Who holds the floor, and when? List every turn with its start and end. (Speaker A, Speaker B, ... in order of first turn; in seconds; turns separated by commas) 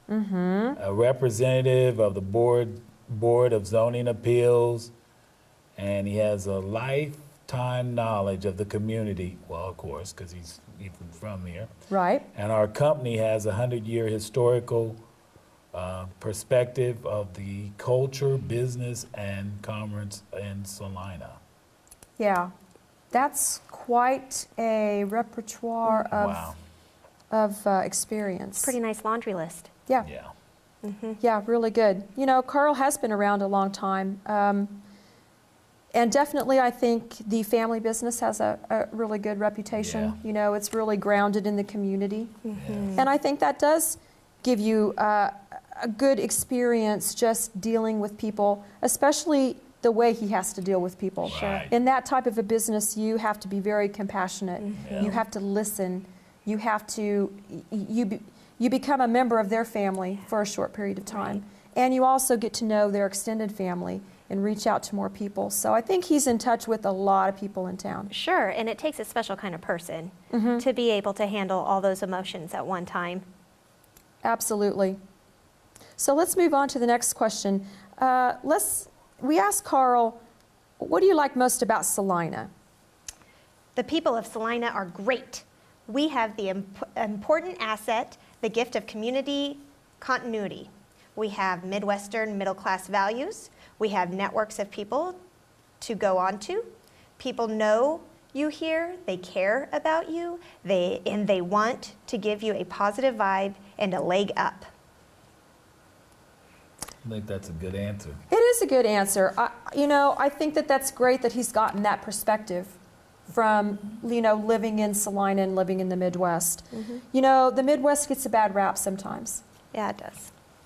Speaker A: 0.1-0.8, Speaker B: 0.8-4.9, Speaker B: 5.8-11.7, Speaker A: 11.9-12.3, Speaker B: 12.3-15.0, Speaker B: 15.7-21.4, Speaker A: 22.2-22.5, Speaker A: 23.1-26.5, Speaker B: 26.1-26.6, Speaker A: 27.3-28.7, Speaker C: 28.6-29.7, Speaker B: 30.0-30.3, Speaker C: 30.8-31.2, Speaker A: 31.2-34.8, Speaker A: 35.9-42.3, Speaker B: 39.7-40.2, Speaker C: 42.4-43.1, Speaker B: 42.5-42.9, Speaker A: 43.0-68.1, Speaker C: 51.2-51.6, Speaker B: 51.2-51.7, Speaker C: 54.6-55.1, Speaker B: 54.8-55.2, Speaker C: 61.1-61.4, Speaker C: 68.1-73.2, Speaker A: 70.3-70.6, Speaker A: 74.2-75.0, Speaker A: 76.0-80.2, Speaker A: 80.8-82.5, Speaker C: 83.7-95.2, Speaker C: 95.8-104.7, Speaker B: 107.0-108.2, Speaker A: 108.3-112.8, Speaker A: 113.3-119.4, Speaker C: 116.7-117.0, Speaker C: 119.7-120.3